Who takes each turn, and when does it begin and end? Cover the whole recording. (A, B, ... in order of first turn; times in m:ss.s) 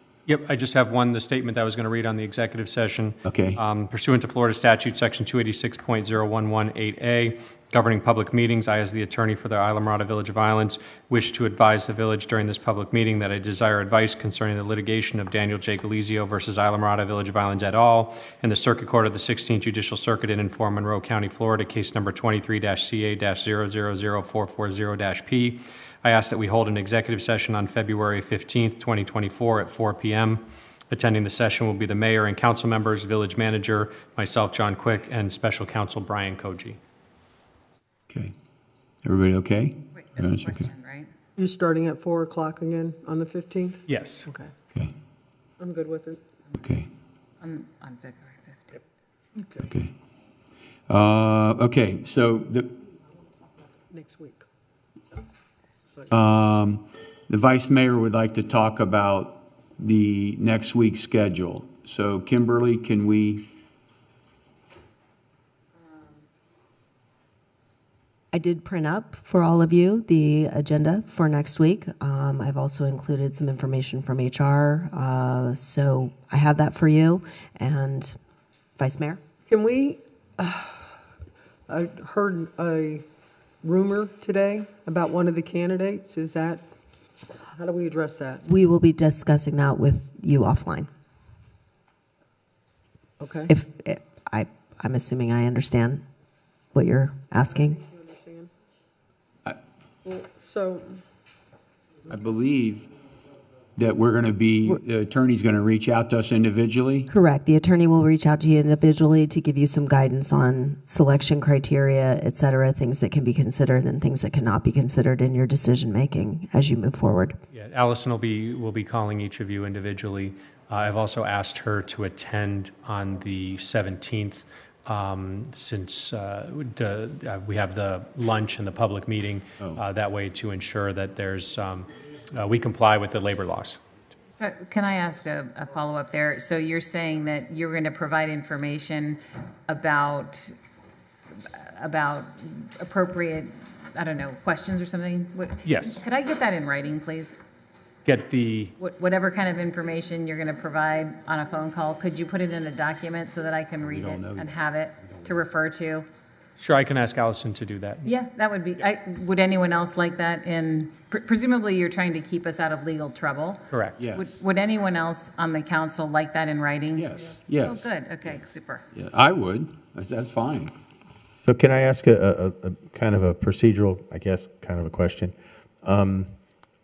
0:00.3-0:36.8 A
0:03.2-0:03.6 B
0:39.0-0:40.7 B
0:40.0-0:41.1 C
0:41.4-0:44.5 D
0:43.9-0:44.3 A
0:45.6-0:46.2 D
0:46.6-0:46.8 B
0:47.4-0:48.8 C
0:49.6-0:49.9 B
0:50.9-0:52.7 B
0:53.9-0:54.4 D
0:56.1-1:03.4 B
1:08.3-1:18.1 E
1:18.8-1:19.2 E
1:19.5-1:21.0 D
1:21.7-1:23.0 D
1:23.6-1:26.6 D
1:27.5-1:28.4 D
1:28.4-1:30.9 E
1:33.2-1:33.5 D
1:33.5-1:36.0 E
1:36.7-1:37.8 E
1:37.8-1:38.5 D
1:40.0-1:41.0 D
1:42.1-1:42.9 B
1:43.8-1:47.1 B
1:47.1-1:57.4 E
1:57.5-2:13.8 A
2:14.3-2:20.5 C
2:21.4-2:27.4 C
2:25.6-2:26.0 A
2:28.0-2:28.7 A
2:28.8-2:36.1 C
2:33.8-2:35.4 B
2:36.6-2:38.1 A
2:38.0-2:48.8 C
2:43.7-2:44.0 A
2:44.0-2:44.4 B
2:47.0-2:48.4 B
2:48.9-2:50.7 B
2:51.4-2:56.3 F